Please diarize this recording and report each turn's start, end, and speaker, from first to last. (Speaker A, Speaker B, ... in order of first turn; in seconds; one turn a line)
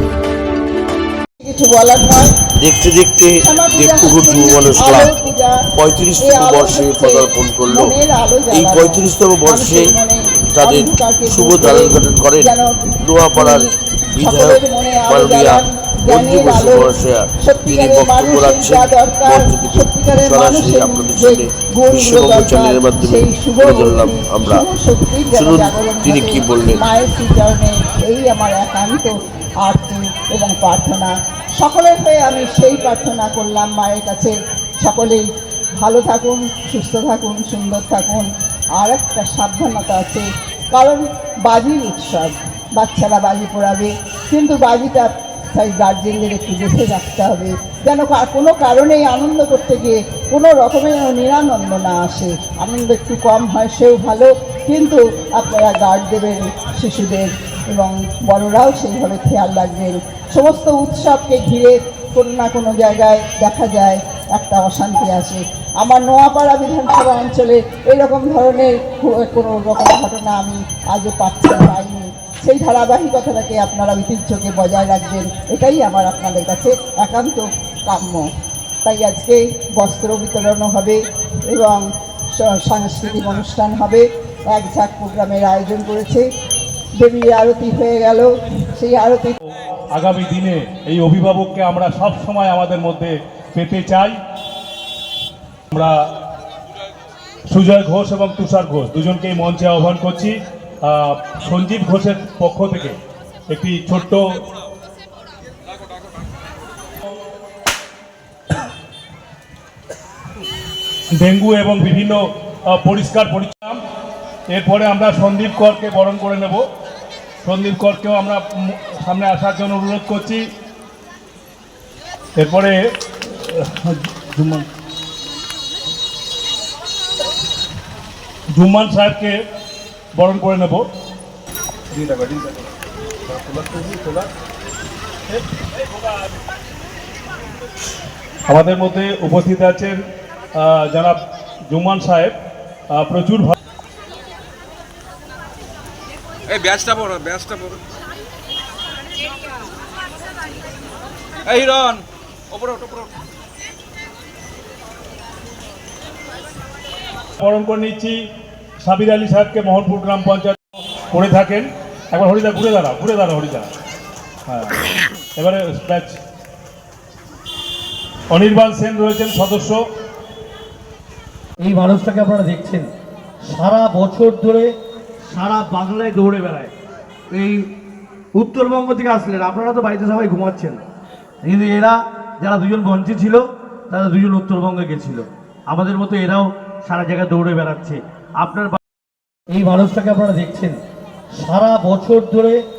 Speaker A: 1.4-2.4
Speaker B: 2.6-5.1
Speaker A: 3.4-5.7
Speaker B: 5.7-7.9
Speaker A: 6.2-35.2
Speaker B: 8.5-10.0
Speaker B: 10.6-24.6
Speaker B: 25.3-26.8
Speaker A: 35.8-38.3
Speaker A: 38.8-78.3
Speaker A: 78.8-86.3
Speaker A: 87.0-89.4
Speaker C: 89.9-94.2
Speaker C: 95.7-96.0
Speaker C: 97.5-103.0
Speaker C: 103.5-104.5
Speaker C: 111.2-113.8
Speaker C: 114.5-116.7
Speaker C: 117.4-120.5
Speaker C: 122.4-124.7
Speaker C: 128.5-129.4
Speaker C: 130.1-130.9
Speaker C: 131.9-132.7
Speaker C: 133.3-134.3
Speaker C: 135.3-135.7
Speaker C: 138.5-140.0
Speaker C: 140.6-141.2
Speaker C: 141.7-142.4
Speaker C: 142.9-143.5
Speaker D: 146.5-147.8
Speaker D: 151.5-152.0
Speaker C: 151.6-151.9
Speaker D: 152.6-153.1
Speaker C: 157.4-158.2
Speaker C: 158.8-163.7
Speaker C: 164.5-164.8
Speaker C: 165.3-166.2
Speaker C: 168.3-169.8
Speaker E: 171.6-172.9
Speaker E: 173.5-174.7
Speaker E: 175.3-176.7
Speaker E: 178.4-180.8
Speaker E: 181.5-188.8
Speaker E: 189.5-190.8
Speaker E: 191.4-192.6